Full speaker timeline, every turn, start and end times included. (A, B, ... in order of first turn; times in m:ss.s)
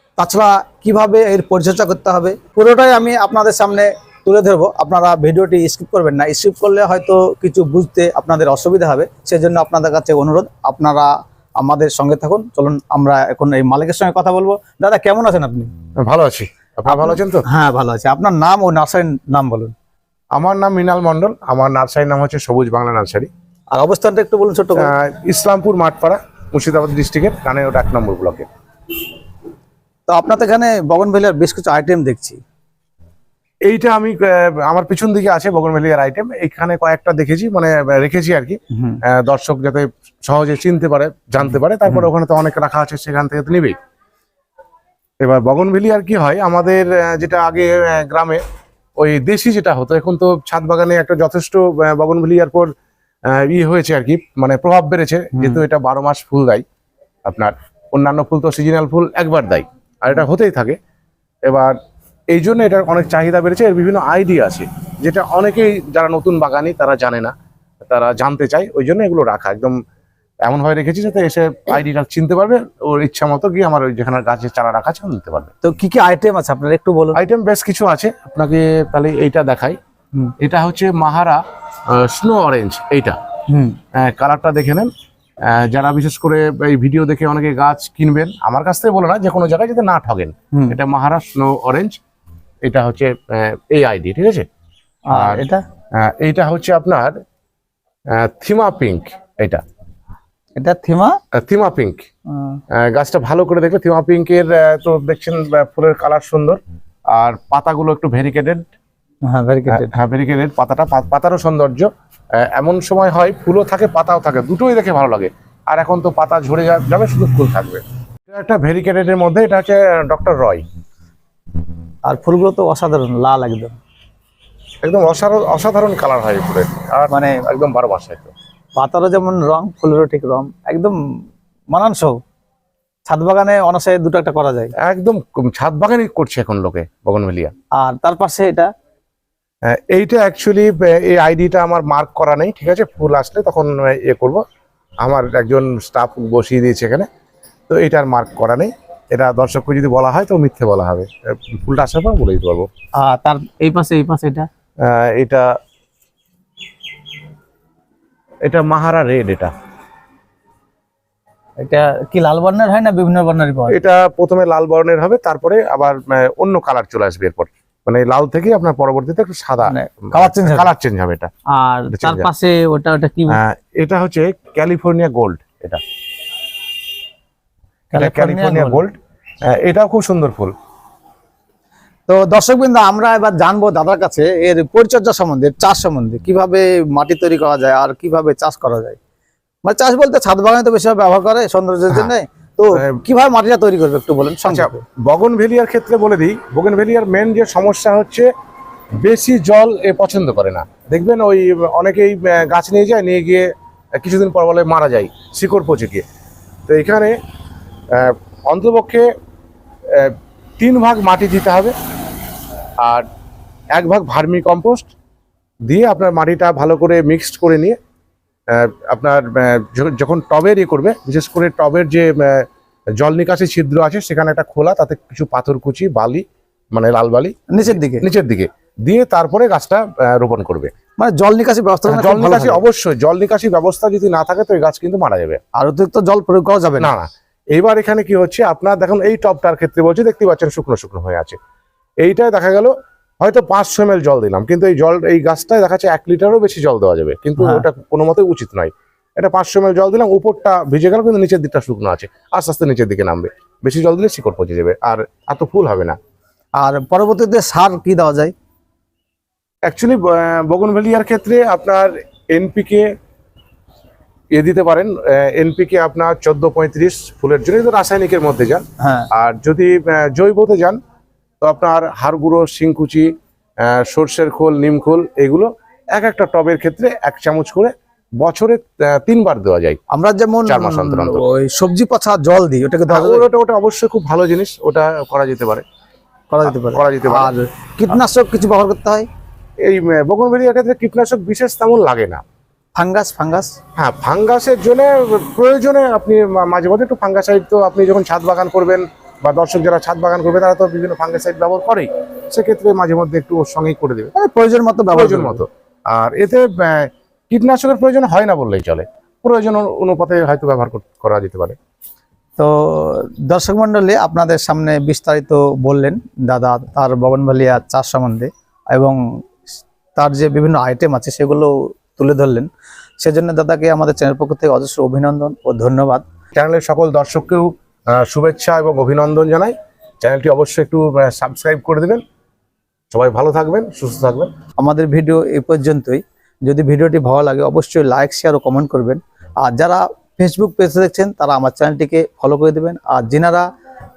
0:00.2-0:15.7 A
0:16.0-0:17.4 B
0:16.9-0:19.8 A
0:20.3-0:23.3 B
0:23.7-0:24.9 A
0:24.7-0:28.5 B
0:30.1-0:32.4 A
0:33.7-0:43.8 B
0:38.7-0:39.0 A
0:45.2-0:48.4 B
0:49.0-0:52.7 B
0:53.3-0:56.6 B
0:57.2-1:00.8 B
1:01.5-1:01.8 B
1:02.3-1:09.8 B
1:10.4-1:15.5 B
1:15.6-1:17.2 A
1:17.1-1:19.8 B
1:20.4-1:23.2 B
1:23.5-1:23.8 A
1:23.9-1:24.9 B
1:25.4-1:32.0 B
1:32.6-1:34.4 B
1:35.1-1:35.6 A
1:35.1-1:35.5 B
1:36.0-1:37.2 B
1:38.1-1:39.6 B
1:40.6-1:41.2 A
1:41.3-1:42.1 B
1:42.3-1:42.6 A
1:42.7-1:46.6 B
1:47.1-1:48.7 B
1:49.3-1:49.9 A
1:49.7-2:00.6 B
2:02.1-2:03.8 A
2:04.8-2:08.3 B
2:07.1-2:07.4 A
2:08.8-2:11.0 A
2:11.7-2:12.2 A
2:13.1-2:14.7 A
2:14.8-2:17.5 B
2:17.8-2:18.7 A
2:19.7-2:24.4 B
2:25.0-2:27.1 B
2:27.7-2:32.7 B
2:33.0-2:34.5 A
2:34.8-2:35.5 B
2:38.4-2:39.5 B
2:41.6-2:43.8 A
2:43.7-2:51.3 B
2:49.6-2:50.7 A
2:51.5-2:53.4 A
2:51.9-2:52.3 B
2:53.3-2:55.8 B
2:57.9-2:58.8 A
2:57.9-3:00.5 B
3:02.1-3:09.0 A
3:09.6-3:14.8 A
3:12.7-3:13.0 B
3:14.5-3:18.3 B
3:19.0-3:26.1 B
3:26.7-3:27.2 B
3:27.9-3:29.1 B
3:29.9-3:31.7 B
3:32.8-3:33.0 B
3:33.7-3:34.9 B
3:35.7-3:37.8 B
3:38.5-3:42.5 B
3:43.0-3:50.7 B
3:47.5-3:48.0 A
3:51.0-3:52.6 A
3:51.9-3:55.4 B
3:55.6-3:56.9 A
3:56.8-4:01.4 B
4:02.0-4:16.0 B
4:07.4-4:07.6 A
4:16.6-4:18.3 A
4:19.6-4:22.9 B
4:24.3-4:30.8 B
4:28.8-4:29.1 A
4:31.4-4:33.1 B
4:33.6-4:39.8 B
4:39.9-4:43.2 A
4:40.4-4:41.2 B
4:42.9-4:45.6 B
4:46.3-4:49.1 A
4:46.4-4:47.3 B
4:49.6-4:52.2 B
4:52.8-4:53.6 A
4:53.8-5:04.1 B
5:04.1-5:05.4 A
5:04.9-5:11.6 B
5:12.4-5:19.0 A
5:19.9-5:22.5 A
5:23.0-5:26.0 A
5:26.3-5:32.0 B
5:32.9-5:34.3 B
5:34.6-5:43.5 A